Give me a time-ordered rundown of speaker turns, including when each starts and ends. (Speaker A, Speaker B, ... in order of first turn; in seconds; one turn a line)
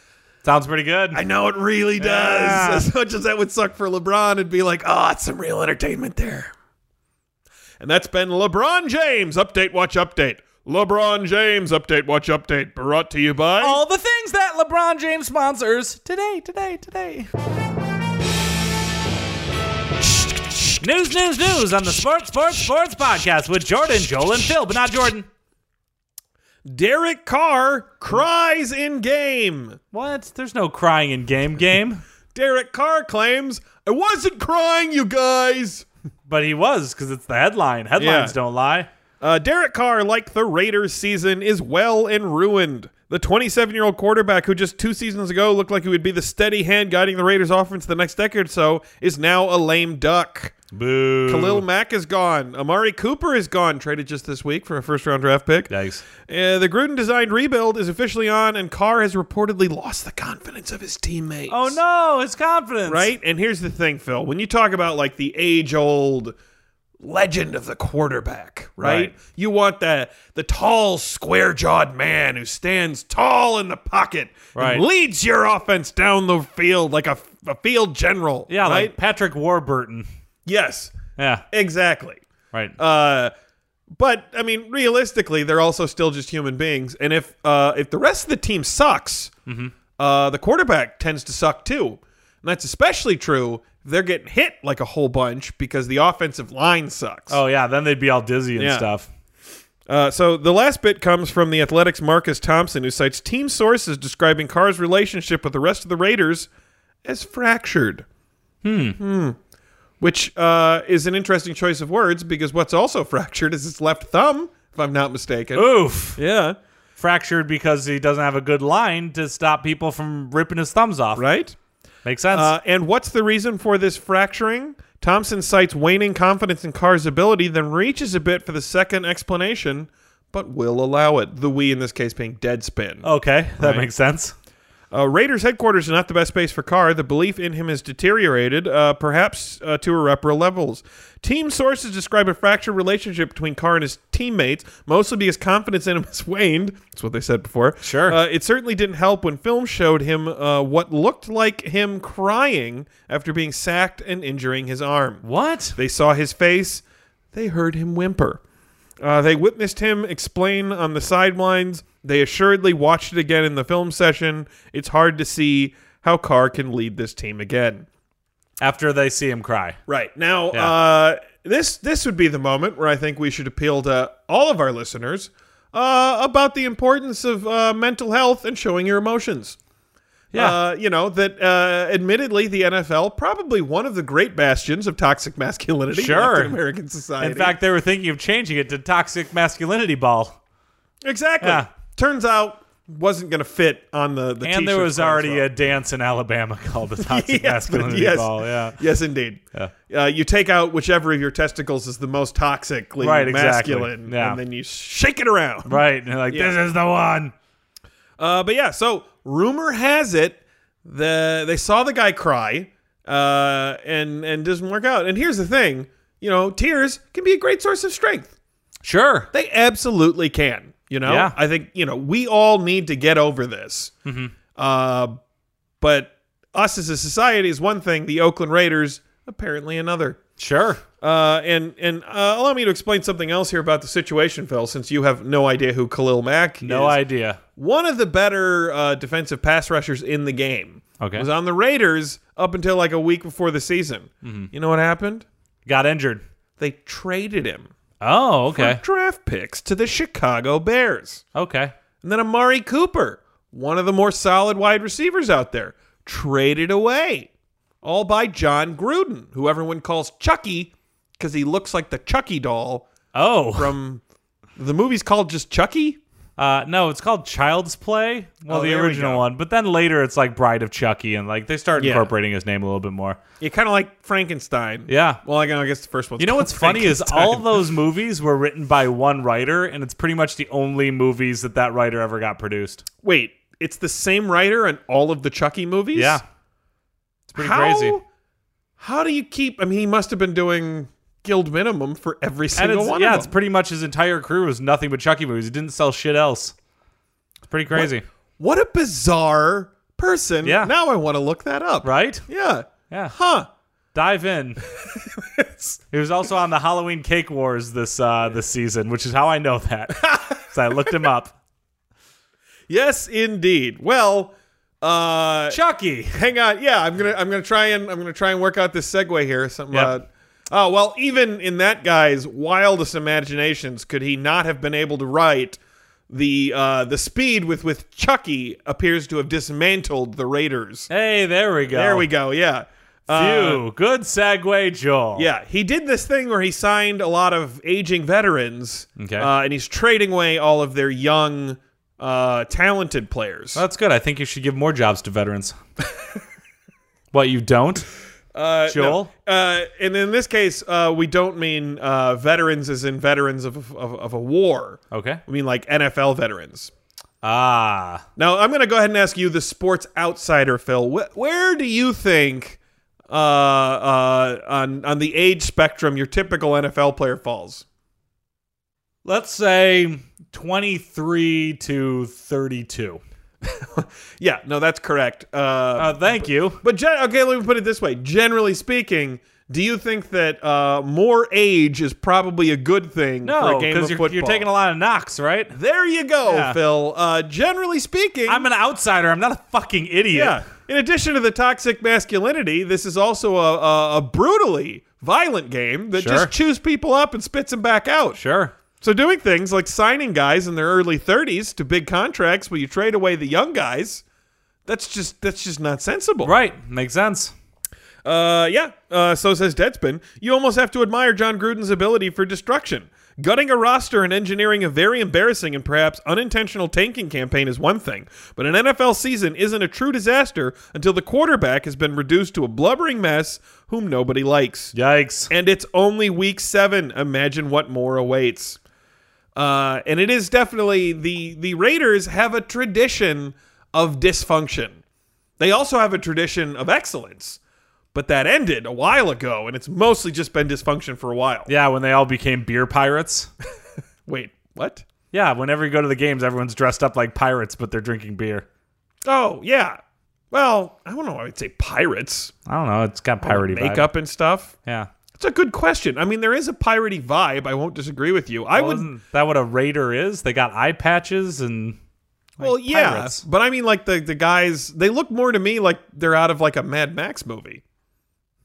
Speaker A: 0.4-1.2
Speaker B: 1.1-6.5
Speaker A: 2.0-2.9
Speaker B: 7.8-13.8
Speaker A: 13.6-17.3
Speaker A: 20.8-25.3
Speaker B: 26.6-29.8
Speaker A: 29.9-32.0
Speaker B: 32.3-35.9
Speaker A: 36.3-38.9
Speaker B: 38.0-38.4
Speaker B: 39.2-50.5
Speaker A: 50.7-51.6
Speaker B: 51.3-61.8
Speaker A: 55.7-56.0
Speaker A: 61.5-63.1
Speaker B: 62.9-66.3
Speaker B: 67.0-78.9
Speaker A: 68.8-69.1
Speaker A: 74.5-74.8
Speaker A: 78.5-80.1
Speaker B: 80.5-81.0
Speaker A: 81.2-81.5
Speaker B: 81.5-82.2
Speaker B: 82.8-83.3
Speaker B: 84.0-89.3
Speaker A: 89.5-89.7
Speaker B: 90.0-97.4
Speaker A: 97.3-99.1
Speaker B: 98.6-98.9
Speaker B: 99.9-106.5
Speaker B: 107.0-108.0
Speaker A: 108.6-109.0
Speaker B: 109.0-109.4
Speaker B: 110.0-116.6
Speaker A: 115.5-116.2
Speaker A: 117.0-121.2
Speaker B: 121.2-121.6
Speaker A: 122.0-122.5
Speaker B: 122.3-133.1
Speaker A: 133.0-134.3
Speaker B: 133.6-133.9
Speaker B: 134.9-155.2
Speaker A: 147.8-148.2
Speaker A: 155.2-155.8
Speaker B: 155.8-158.4
Speaker B: 159.0-167.9
Speaker A: 168.6-169.8
Speaker B: 169.9-179.6
Speaker A: 180.3-180.6
Speaker B: 180.3-187.6
Speaker A: 185.9-186.6
Speaker A: 187.2-190.4
Speaker B: 191.0-195.5
Speaker A: 191.4-191.7
Speaker A: 194.4-198.8
Speaker B: 197.0-206.6
Speaker A: 203.0-204.4
Speaker A: 205.7-207.3
Speaker B: 208.2-218.3
Speaker A: 218.8-219.3
Speaker B: 219.3-223.9
Speaker A: 221.1-221.4
Speaker A: 224.1-224.3
Speaker B: 224.6-225.2
Speaker B: 225.8-230.2
Speaker A: 230.4-230.8
Speaker B: 231.0-237.0
Speaker A: 236.6-237.4
Speaker B: 237.6-245.3
Speaker A: 241.0-241.3
Speaker A: 244.2-244.5
Speaker A: 245.7-246.2
Speaker B: 246.6-247.7
Speaker A: 248.0-248.8
Speaker B: 248.5-251.2
Speaker A: 251.3-251.7
Speaker B: 252.0-257.3
Speaker B: 257.8-262.9
Speaker A: 263.1-263.7
Speaker B: 263.6-264.0
Speaker B: 264.6-266.0
Speaker A: 266.4-273.2
Speaker B: 268.5-269.2
Speaker B: 271.8-272.1
Speaker B: 273.4-277.7
Speaker A: 274.9-275.2
Speaker A: 276.2-282.8
Speaker B: 283.0-286.2
Speaker A: 285.9-286.2
Speaker A: 287.3-288.0
Speaker B: 287.4-288.0
Speaker B: 288.8-293.3
Speaker A: 292.6-296.5
Speaker A: 297.5-298.0
Speaker B: 297.7-303.5
Speaker A: 300.4-300.7
Speaker A: 301.8-302.2
Speaker A: 302.9-303.1
Speaker A: 303.9-304.6
Speaker B: 304.9-305.8
Speaker A: 305.9-311.4
Speaker B: 310.0-310.3
Speaker B: 312.7-315.6
Speaker A: 315.5-316.2
Speaker B: 316.1-325.6
Speaker B: 326.1-330.9
Speaker A: 330.9-332.1
Speaker B: 331.7-333.6
Speaker A: 333.1-335.3
Speaker B: 335.2-343.6
Speaker A: 339.0-339.3
Speaker A: 343.6-345.6
Speaker A: 347.1-347.9
Speaker B: 348.3-356.7
Speaker A: 348.7-349.1
Speaker A: 354.9-355.2
Speaker A: 357.2-358.0
Speaker B: 358.2-367.6
Speaker A: 369.1-373.0
Speaker B: 373.4-384.5
Speaker A: 375.8-376.6
Speaker A: 383.2-385.5
Speaker B: 385.5-388.5
Speaker A: 386.2-386.6
Speaker A: 388.3-390.4
Speaker B: 390.1-398.2
Speaker A: 396.0-396.3
Speaker A: 398.1-398.5
Speaker B: 398.8-404.0
Speaker B: 404.7-406.3
Speaker A: 406.2-407.3
Speaker B: 408.1-424.7
Speaker A: 424.7-425.3
Speaker B: 425.3-428.6
Speaker B: 429.4-434.8
Speaker B: 435.4-437.4
Speaker B: 437.9-441.5
Speaker A: 441.5-443.3
Speaker B: 444.1-444.9
Speaker A: 445.1-448.5
Speaker B: 449.1-449.8
Speaker B: 450.3-452.3
Speaker A: 452.5-453.9
Speaker B: 453.2-454.5
Speaker A: 454.6-454.9
Speaker B: 455.2-458.9
Speaker A: 458.5-461.8
Speaker A: 462.4-463.2
Speaker B: 462.4-467.6